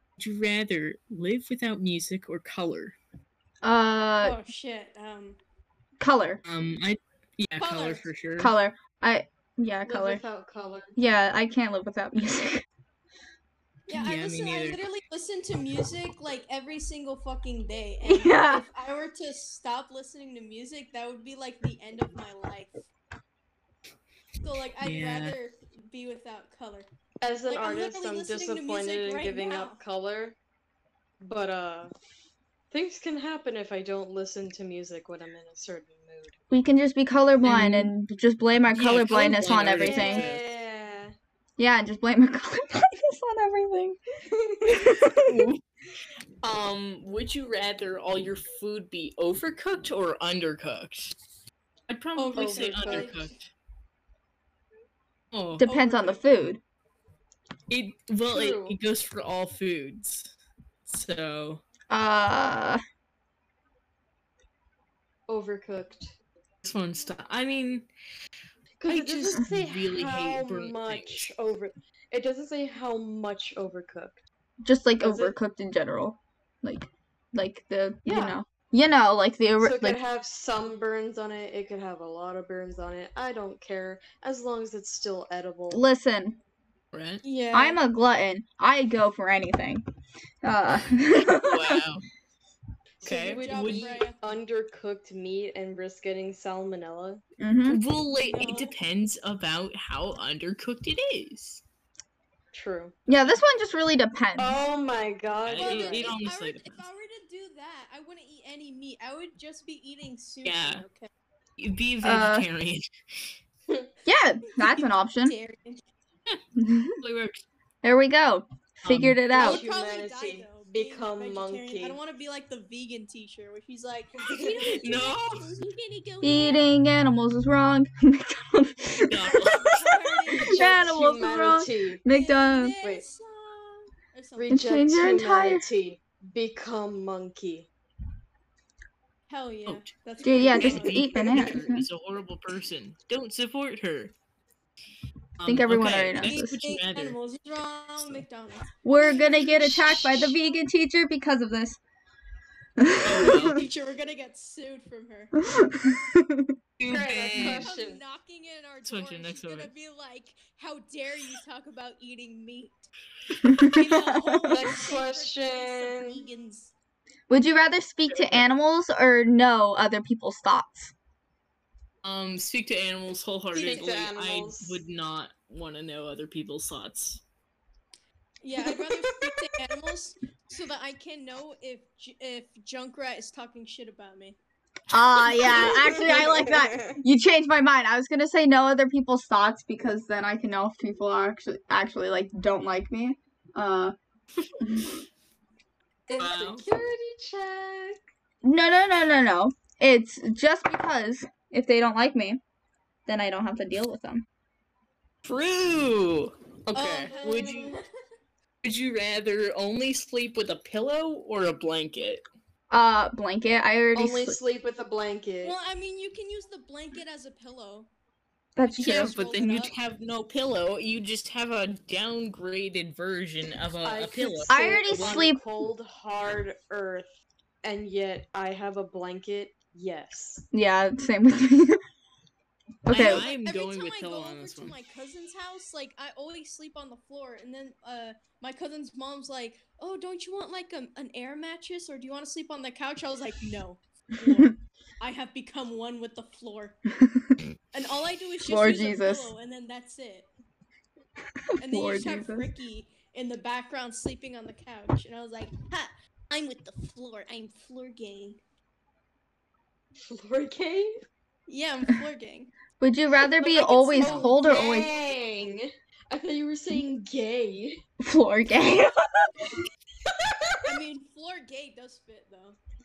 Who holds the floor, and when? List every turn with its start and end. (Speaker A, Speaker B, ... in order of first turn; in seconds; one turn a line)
Speaker A: 0.2-3.0
Speaker B: 3.6-4.4
Speaker C: 4.2-5.4
Speaker B: 6.0-6.4
Speaker A: 6.4-8.5
Speaker C: 7.6-8.1
Speaker B: 8.4-10.2
Speaker D: 9.8-10.9
Speaker B: 10.9-12.6
Speaker C: 13.9-22.7
Speaker A: 13.9-14.8
Speaker B: 18.0-18.6
Speaker C: 24.4-26.9
Speaker A: 24.8-25.4
Speaker D: 27.2-30.4
Speaker C: 27.5-29.8
Speaker D: 31.2-31.9
Speaker D: 32.7-36.4
Speaker B: 36.5-40.3
Speaker A: 37.4-37.9
Speaker A: 38.7-40.4
Speaker D: 39.1-41.1
Speaker B: 41.6-44.0
Speaker D: 44.3-44.8
Speaker B: 44.6-45.4
Speaker A: 45.2-45.6
Speaker A: 46.4-51.1
Speaker A: 51.9-53.5
Speaker C: 52.1-53.2
Speaker D: 52.3-53.3
Speaker A: 55.3-55.6
Speaker B: 55.6-56.6
Speaker C: 55.6-56.2
Speaker A: 57.7-60.3
Speaker D: 58.3-58.8
Speaker A: 60.9-61.6
Speaker B: 61.9-62.8
Speaker D: 65.3-66.1
Speaker A: 66.6-67.9
Speaker D: 68.8-74.2
Speaker A: 68.8-71.3
Speaker B: 74.6-80.0
Speaker D: 75.0-75.3
Speaker D: 78.0-78.4
Speaker D: 79.6-85.8
Speaker B: 85.7-86.4
Speaker A: 86.9-87.2
Speaker C: 87.2-87.8
Speaker B: 87.5-89.8
Speaker B: 90.4-91.8
Speaker A: 91.4-92.0
Speaker A: 93.0-93.9
Speaker D: 93.0-97.2
Speaker C: 93.3-94.2
Speaker B: 97.4-97.8
Speaker A: 97.7-101.6
Speaker C: 98.2-98.7
Speaker D: 102.5-102.9
Speaker B: 103.1-104.6
Speaker D: 104.4-106.1
Speaker A: 105.4-106.8
Speaker C: 105.6-111.1
Speaker A: 110.4-110.8
Speaker A: 111.6-113.3
Speaker B: 112.0-112.5
Speaker B: 114.0-115.3
Speaker C: 114.5-115.8
Speaker B: 116.6-117.0
Speaker A: 117.0-117.4
Speaker B: 117.8-119.6
Speaker A: 118.8-119.2
Speaker D: 119.3-122.0
Speaker C: 119.3-126.6
Speaker D: 124.2-124.7
Speaker A: 124.7-125.5
Speaker B: 126.2-129.6
Speaker A: 129.1-129.8
Speaker C: 129.4-130.9
Speaker D: 130.3-132.0
Speaker B: 130.4-132.8
Speaker C: 132.1-134.7
Speaker D: 134.3-137.7
Speaker B: 134.5-135.7
Speaker C: 139.3-141.3
Speaker B: 140.2-141.9
Speaker A: 140.4-144.1
Speaker D: 141.2-141.5
Speaker A: 145.4-147.2
Speaker B: 145.4-146.6
Speaker C: 146.2-150.6
Speaker B: 148.8-151.8
Speaker B: 152.8-153.6
Speaker A: 153.0-153.6
Speaker C: 153.1-155.4
Speaker B: 155.4-156.5
Speaker A: 156.8-157.7
Speaker D: 156.8-158.0
Speaker C: 157.3-162.9
Speaker A: 158.8-159.7
Speaker C: 163.4-166.7
Speaker B: 163.4-164.6
Speaker D: 164.5-166.2
Speaker B: 167.3-170.9
Speaker A: 168.1-168.4
Speaker A: 172.0-177.2
Speaker D: 173.5-174.8
Speaker C: 178.4-184.3
Speaker D: 178.6-179.4
Speaker B: 184.9-193.9
Speaker D: 185.2-187.0
Speaker C: 185.4-186.2
Speaker B: 194.6-194.9
Speaker D: 196.1-198.0
Speaker A: 196.2-196.6
Speaker B: 198.4-202.4
Speaker B: 203.1-204.2
Speaker A: 205.2-207.7
Speaker C: 206.7-207.8
Speaker D: 206.9-207.8
Speaker A: 208.6-212.2
Speaker B: 212.7-214.4
Speaker D: 213.9-215.6
Speaker C: 215.4-217.9
Speaker B: 218.6-219.1
Speaker C: 218.6-219.7
Speaker A: 218.8-225.2
Speaker D: 223.8-227.1
Speaker B: 224.5-225.4
Speaker D: 227.6-230.4
Speaker B: 230.5-231.8
Speaker B: 232.8-233.2
Speaker A: 232.9-234.8
Speaker C: 232.9-246.8
Speaker B: 247.0-247.3
Speaker C: 247.7-250.3
Speaker B: 248.4-249.3
Speaker B: 251.5-252.4
Speaker C: 251.6-258.4
Speaker D: 260.1-260.9
Speaker C: 261.5-262.5
Speaker B: 262.8-264.9
Speaker C: 263.4-264.7
Speaker D: 264.0-267.8
Speaker B: 268.0-269.7
Speaker D: 270.0-270.8
Speaker C: 270.7-272.6